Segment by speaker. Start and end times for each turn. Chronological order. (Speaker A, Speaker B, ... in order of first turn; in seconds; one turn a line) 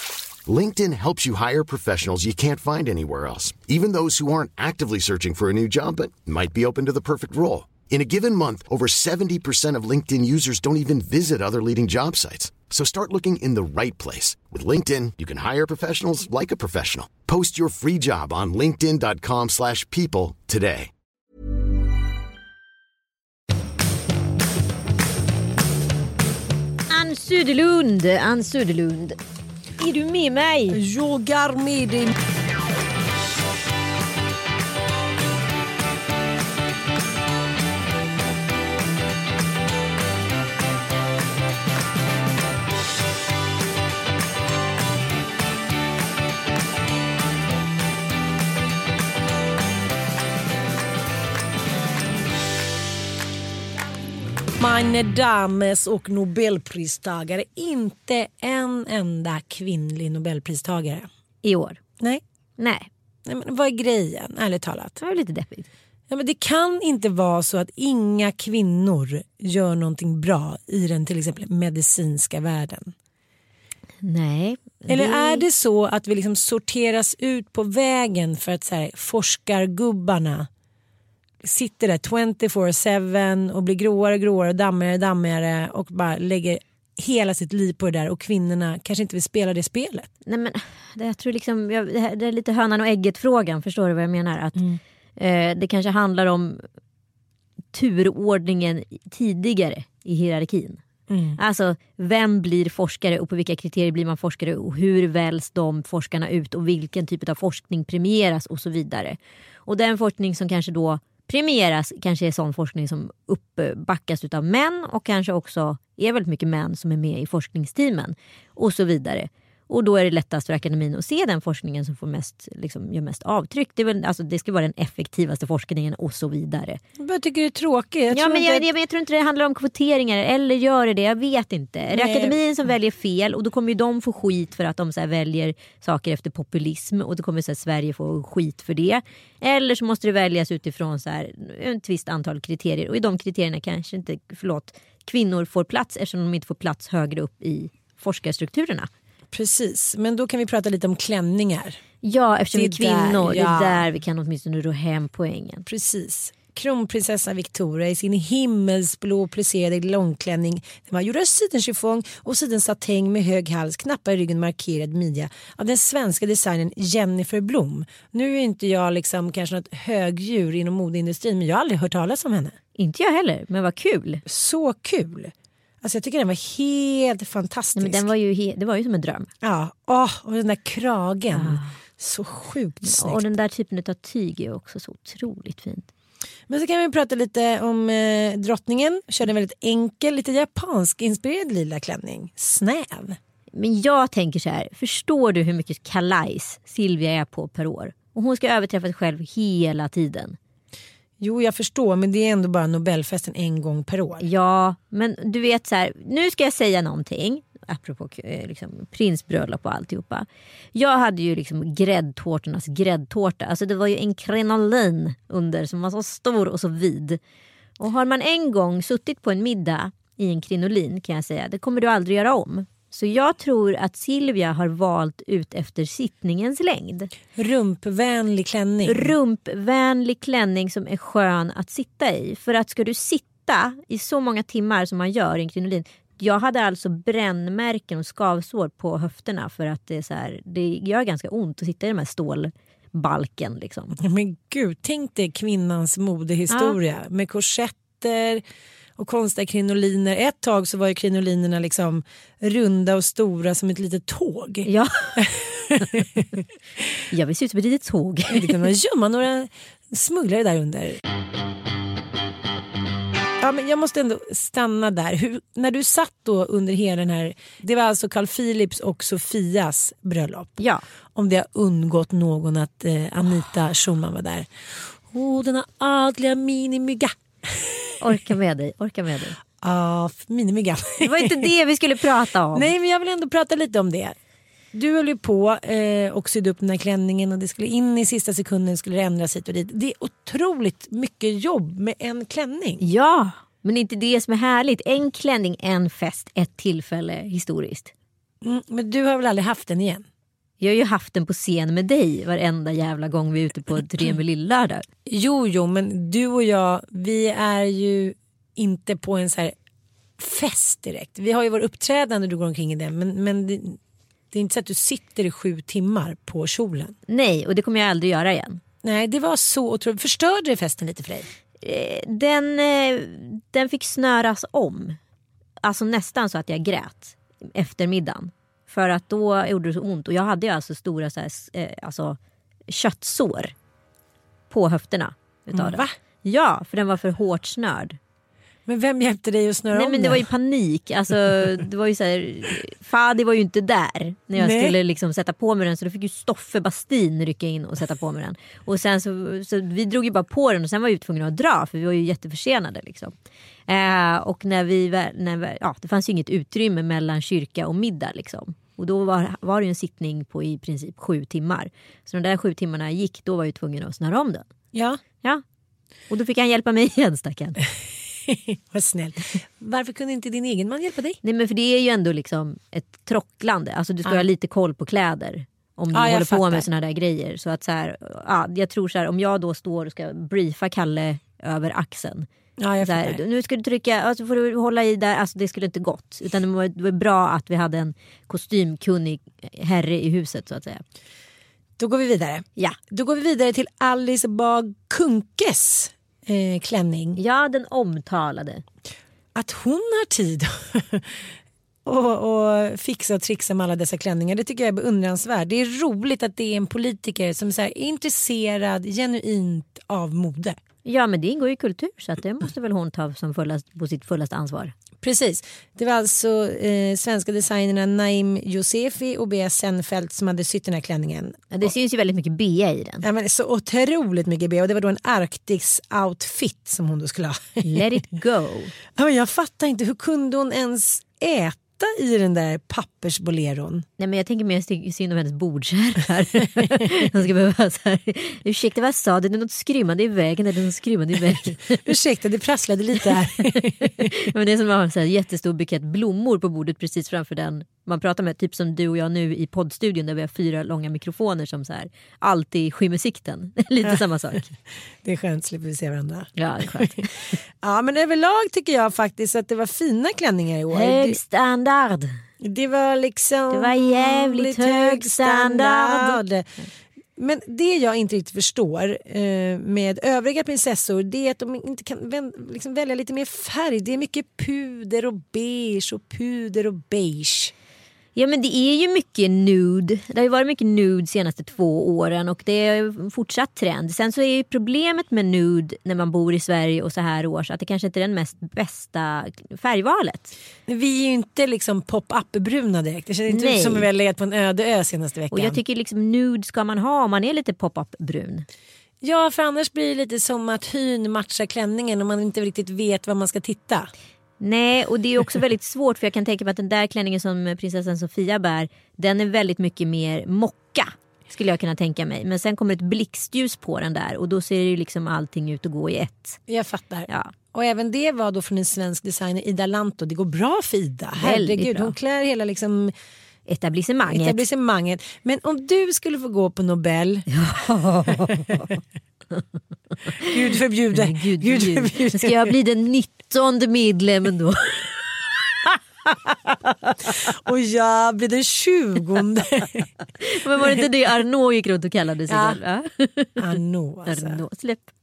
Speaker A: 0.5-20.9
Speaker B: 26.9-29.2
Speaker B: 29.8-30.8
Speaker C: 30.7-32.1
Speaker C: 54.6-61.1
Speaker B: 61.4-61.8
Speaker B: 62.6-62.9
Speaker C: 63.2-65.0
Speaker B: 65.0-65.7
Speaker C: 66.1-72.9
Speaker B: 74.0-75.5
Speaker C: 74.9-80.5
Speaker C: 81.4-90.1
Speaker B: 90.3-94.6
Speaker C: 94.5-94.8
Speaker B: 95.2-96.7
Speaker B: 97.7-100.8
Speaker C: 101.1-101.4
Speaker B: 101.4-126.8
Speaker C: 127.0-128.7
Speaker B: 128.1-148.9
Speaker C: 131.9-132.4
Speaker C: 149.3-151.8
Speaker B: 152.0-155.7
Speaker C: 152.5-153.9
Speaker C: 155.7-172.6
Speaker B: 172.8-174.2
Speaker C: 174.3-178.1
Speaker B: 177.8-179.3
Speaker C: 179.4-183.2
Speaker B: 181.3-181.7
Speaker B: 182.8-185.9
Speaker C: 186.5-193.2
Speaker B: 193.5-200.4
Speaker C: 201.2-204.3
Speaker B: 204.2-217.2
Speaker B: 217.8-227.1
Speaker C: 227.4-229.1
Speaker B: 228.9-244.0
Speaker C: 244.0-248.4
Speaker B: 246.5-246.8
Speaker C: 249.0-256.2
Speaker B: 254.7-255.2
Speaker B: 257.1-258.6
Speaker C: 258.3-261.0
Speaker C: 263.4-270.6
Speaker B: 270.6-270.8
Speaker C: 271.1-277.9
Speaker B: 278.0-279.4
Speaker C: 279.6-281.5
Speaker B: 281.0-282.7
Speaker C: 282.5-284.2
Speaker C: 284.7-292.8
Speaker B: 292.8-297.9
Speaker C: 298.4-300.1
Speaker B: 300.6-304.9
Speaker C: 305.1-309.6
Speaker C: 310.2-313.8
Speaker C: 314.3-316.9
Speaker B: 317.1-318.6
Speaker C: 318.8-321.3
Speaker B: 321.6-325.0
Speaker B: 325.6-333.5
Speaker B: 334.5-338.0
Speaker C: 335.5-335.9
Speaker C: 338.7-340.3
Speaker B: 339.7-353.1
Speaker C: 344.4-344.8
Speaker B: 353.7-364.5
Speaker C: 364.7-365.0
Speaker B: 366.1-367.6
Speaker C: 368.3-371.2
Speaker B: 371.2-382.3
Speaker C: 375.9-376.7
Speaker C: 382.6-383.2
Speaker B: 382.8-390.8
Speaker C: 391.8-397.2
Speaker B: 397.2-398.6
Speaker C: 399.3-401.3
Speaker C: 401.9-410.6
Speaker B: 410.9-414.7
Speaker C: 415.0-421.7
Speaker B: 421.5-423.1
Speaker C: 423.0-427.9
Speaker B: 427.6-428.7
Speaker C: 428.9-433.9
Speaker B: 434.0-441.8
Speaker C: 441.8-444.1
Speaker B: 443.8-454.5
Speaker C: 455.0-461.2
Speaker B: 456.4-457.4
Speaker B: 460.7-462.2
Speaker C: 462.4-466.5
Speaker B: 463.5-466.7
Speaker C: 467.2-477.5
Speaker B: 478.1-490.3
Speaker C: 490.7-495.6
Speaker B: 493.3-493.9
Speaker B: 495.3-498.5
Speaker C: 499.0-503.9
Speaker B: 504.4-516.4
Speaker C: 516.5-522.9
Speaker B: 517.1-517.3
Speaker B: 521.2-521.9
Speaker B: 523.5-524.4
Speaker C: 524.1-527.3
Speaker B: 527.3-528.8
Speaker C: 530.3-532.5
Speaker B: 530.9-535.0
Speaker B: 536.9-537.1
Speaker C: 537.2-539.9
Speaker B: 540.2-543.6
Speaker C: 540.6-540.9
Speaker C: 542.3-542.6
Speaker C: 543.4-544.4
Speaker B: 544.1-544.9